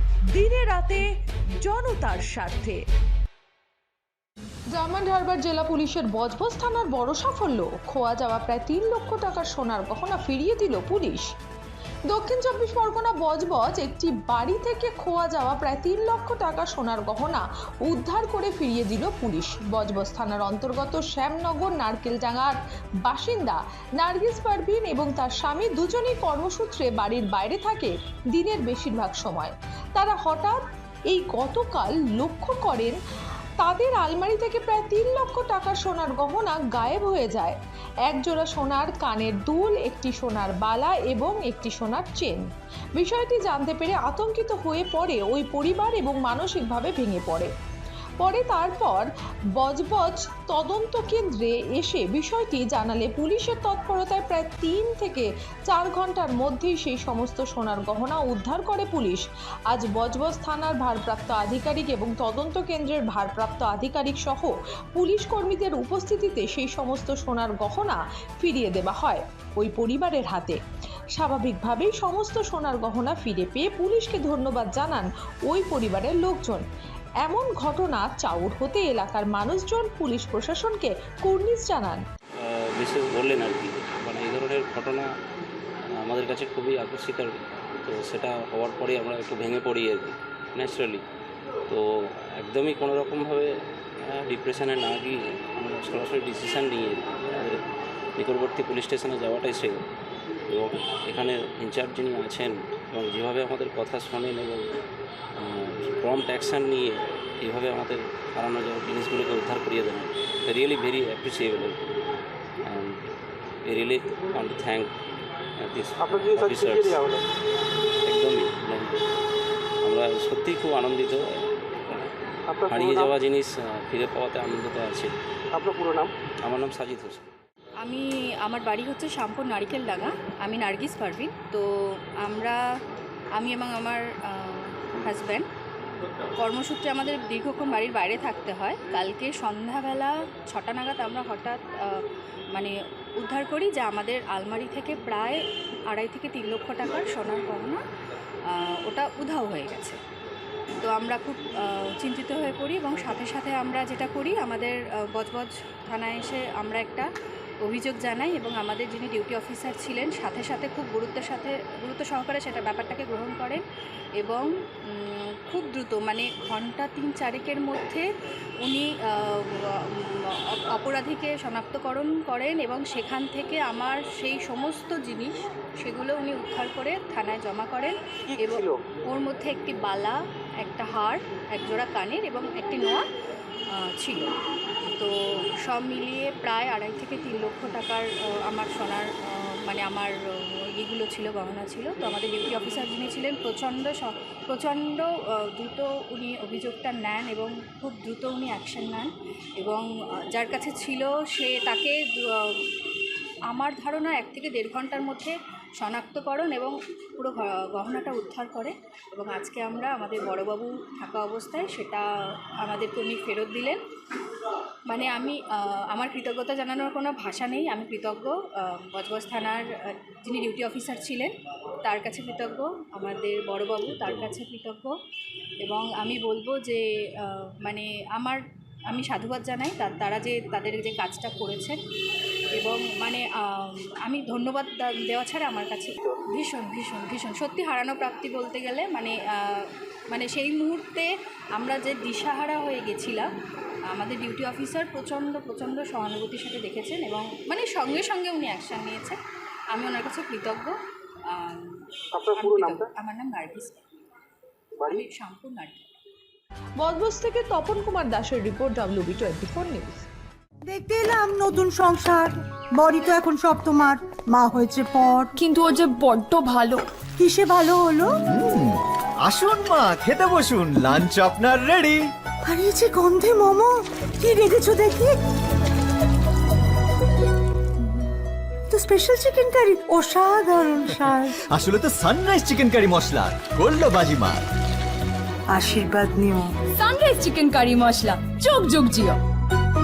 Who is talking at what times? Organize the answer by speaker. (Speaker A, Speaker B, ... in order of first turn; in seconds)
Speaker A: 0.3-1.0, 1.6-2.8, 4.7-11.3, 12.1-33.0, 33.6-42.4, 43.0-47.5, 48.2-70.6, 71.1-76.6, 77.2-82.0, 256.8-260.1
Speaker B: 82.4-85.0, 86.0-91.0, 91.7-97.6, 98.2-99.8, 100.5-104.8, 105.3-111.8, 112.6-113.1, 113.6-114.9, 115.6-117.1, 118.0-119.0, 119.8-122.1, 122.7-125.1, 126.4-127.3
Speaker C: 116.0-117.2, 122.5-123.1, 125.5-126.1, 178.4-178.8, 252.1-252.9
Speaker D: 127.8-132.6, 133.3-135.4, 136.3-147.8, 148.4-150.0, 150.8-157.1, 157.6-163.6, 164.2-168.1, 168.6-183.0, 183.7-184.3, 184.9-202.8, 203.5-213.8, 214.9-224.9, 225.6-231.8, 232.5-243.3, 243.9-249.2, 249.7-250.8, 251.3-253.8, 254.8-255.9
Speaker E: 260.7-265.3, 267.2-268.1, 272.4-275.1, 278.7-281.3, 285.5-286.5
Speaker F: 265.4-266.9, 286.7-289.2
Speaker G: 268.3-272.0, 281.5-284.4